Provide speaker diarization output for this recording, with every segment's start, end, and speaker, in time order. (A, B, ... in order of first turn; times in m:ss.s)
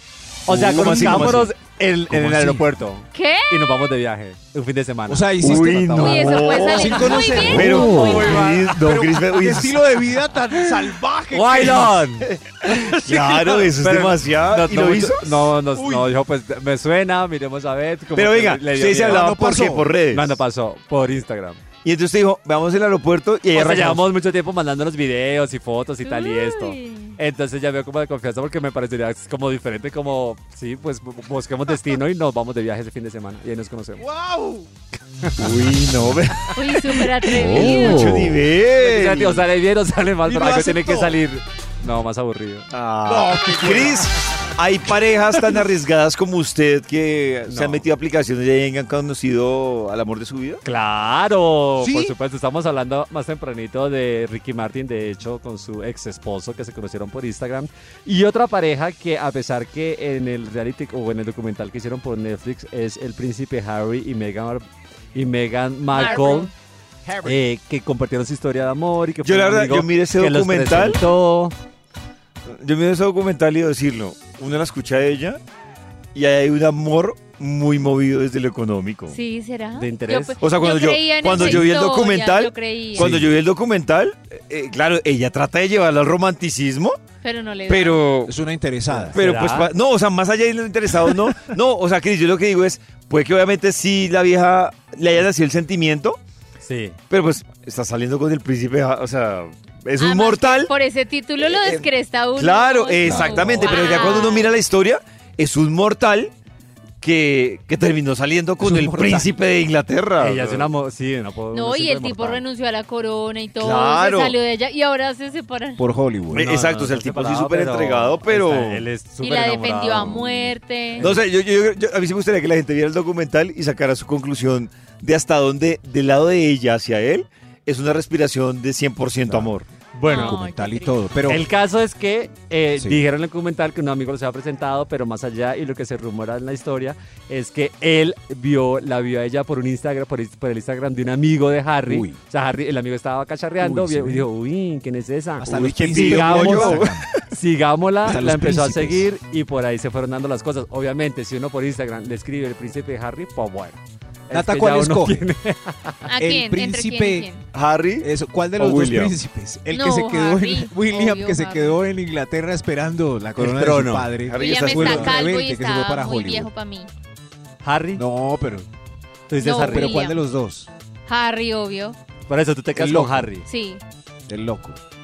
0:00.5-0:06.4 A
0:00.5-0:01.5 B
0:00.8-0:01.5 C
0:02.1-0:02.7 C
0:03.1-0:03.7 D
0:05.1-0:12.2 C
0:05.4-0:09.8 B
0:06.0-0:08.6 D
0:11.3-0:12.3 A
0:12.8-0:15.5 B
0:12.9-0:13.5 C
0:13.2-0:19.3 A
0:15.7-0:16.1 C
0:18.2-0:20.4 B
0:18.8-0:19.9 C
0:20.1-0:21.6 A
0:21.8-0:24.1 B
0:23.5-0:34.1 A
0:26.0-0:27.2 D
0:34.0-0:34.7 C
0:35.4-0:39.4 B
0:36.5-0:38.3 D
0:37.6-0:42.7 A
0:37.6-0:38.2 C
0:40.2-0:41.2 C
0:42.7-0:50.6 B
0:43.1-0:44.0 C
0:47.5-0:47.8 A
0:50.6-1:06.5 A
0:51.8-0:52.1 C
1:05.9-1:06.5 D
1:07.1-1:07.4 C
1:07.2-1:11.6 A
1:09.2-1:11.0 B
1:12.5-1:15.4 B
1:16.2-1:19.2 B
1:19.1-1:23.1 D
1:19.8-1:20.4 A
1:20.4-1:27.0 B
1:23.0-1:23.2 A
1:27.2-1:28.1 D
1:27.7-1:28.3 B
1:28.2-1:29.2 C
1:28.9-1:29.7 A
1:29.1-1:36.2 B
1:36.6-1:37.0 A
1:37.1-1:40.7 B
1:40.0-1:44.5 D
1:41.4-1:46.3 B
1:43.0-1:43.7 C
1:43.4-1:44.2 A
1:47.0-1:50.7 B
1:48.7-1:49.3 C
1:50.2-1:52.4 A
1:51.5-1:55.8 D
1:53.6-1:54.4 B
1:55.8-1:56.5 C
1:56.3-1:58.9 B
1:56.4-2:01.2 A
1:59.2-2:01.1 D
2:01.0-2:09.7 B
2:09.9-2:10.4 A
2:10.0-2:11.5 C
2:10.1-2:11.0 D
2:11.3-2:36.0 A
2:21.9-2:22.2 C
2:23.6-2:24.3 C
2:25.4-2:27.1 C
2:25.8-2:27.1 B
2:28.0-2:29.1 C
2:34.3-2:35.2 C
2:36.1-2:37.4 D
2:36.2-2:37.3 C
2:37.5-2:39.2 B
2:38.0-2:46.5 C
2:39.7-2:41.8 D
2:43.4-2:44.1 A
2:44.3-2:45.2 B
2:44.4-2:46.9 D
2:47.6-2:48.0 A
2:48.0-2:48.7 C
2:49.3-2:50.0 A
2:49.4-2:50.2 D
2:49.5-2:50.7 C
2:51.1-2:52.0 D
2:52.3-2:53.5 A
2:52.8-2:53.4 C
2:53.5-2:53.8 D
2:54.3-2:54.8 C